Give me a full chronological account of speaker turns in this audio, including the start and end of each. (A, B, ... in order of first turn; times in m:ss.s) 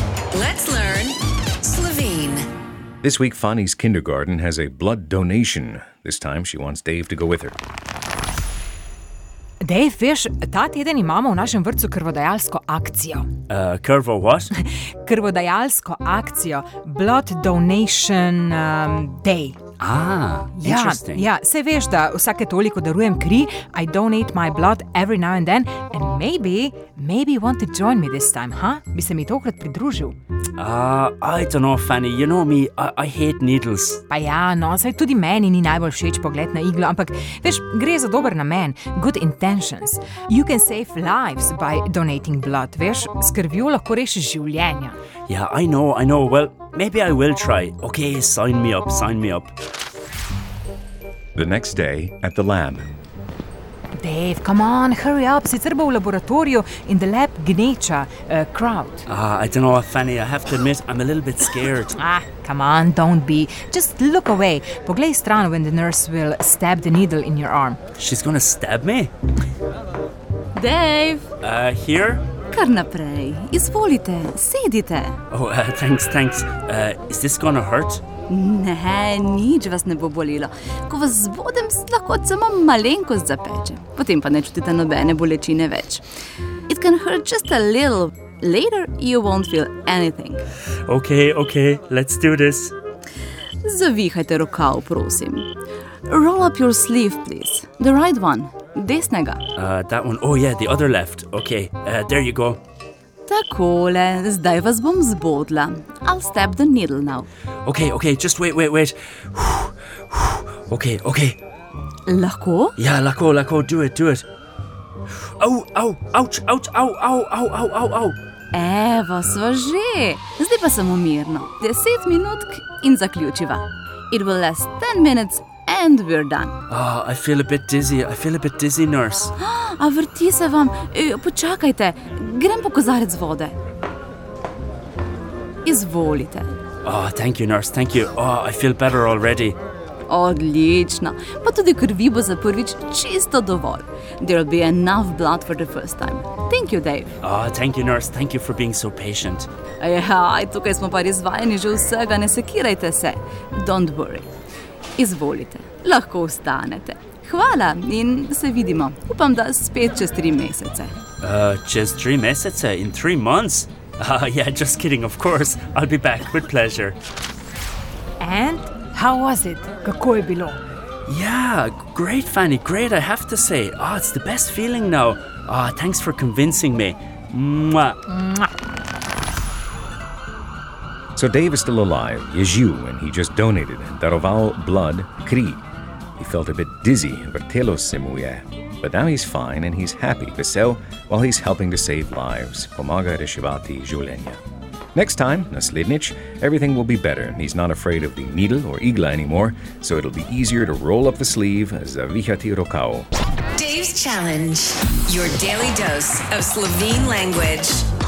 0:00.3-0:02.4 A
0:03.0-0:07.6 B
0:09.6-0:13.3 C
0:13.5-0:14.5 D
0:14.5-0:19.6 C
0:19.8-0:21.3 D
0:20.6-0:30.2 C
0:30.6-0:34.0 D
0:34.1-0:44.9 C
0:45.3-0:49.5 D
0:51.4-0:52.9 B
0:54.0-0:59.1 C
0:59.1-1:02.0 D
1:01.9-1:07.8 C
1:08.0-1:09.1 D
1:10.5-1:11.3 E
1:11.4-1:12.2 D
1:12.5-1:15.2 E
1:15.3-1:18.0 D
1:18.3-1:26.0 E
1:26.7-1:30.4 E
1:30.8-1:32.7 D
1:33.6-1:35.5 E
1:36.1-1:39.4 E
1:39.6-1:42.6 D
1:43.3-1:47.3 E
1:47.6-1:51.4 D
1:52.1-1:52.8 E
1:52.8-1:54.2 D
1:55.4-1:58.2 D
1:58.5-2:06.6 E
2:06.7-2:09.3 D
2:09.4-2:13.6 E
2:15.6-2:16.5 E
2:16.8-2:19.6 D
2:20.1-2:27.1 E
2:27.2-2:29.5 D
2:29.8-2:34.3 E
2:35.0-2:41.0 E
2:41.2-2:47.0 D
2:48.2-2:50.6 C
2:51.1-2:58.0 D
2:58.1-2:58.5 C
3:01.2-3:05.6 B
3:06.2-3:14.4 B
3:14.9-3:23.1 B
3:23.6-3:27.9 A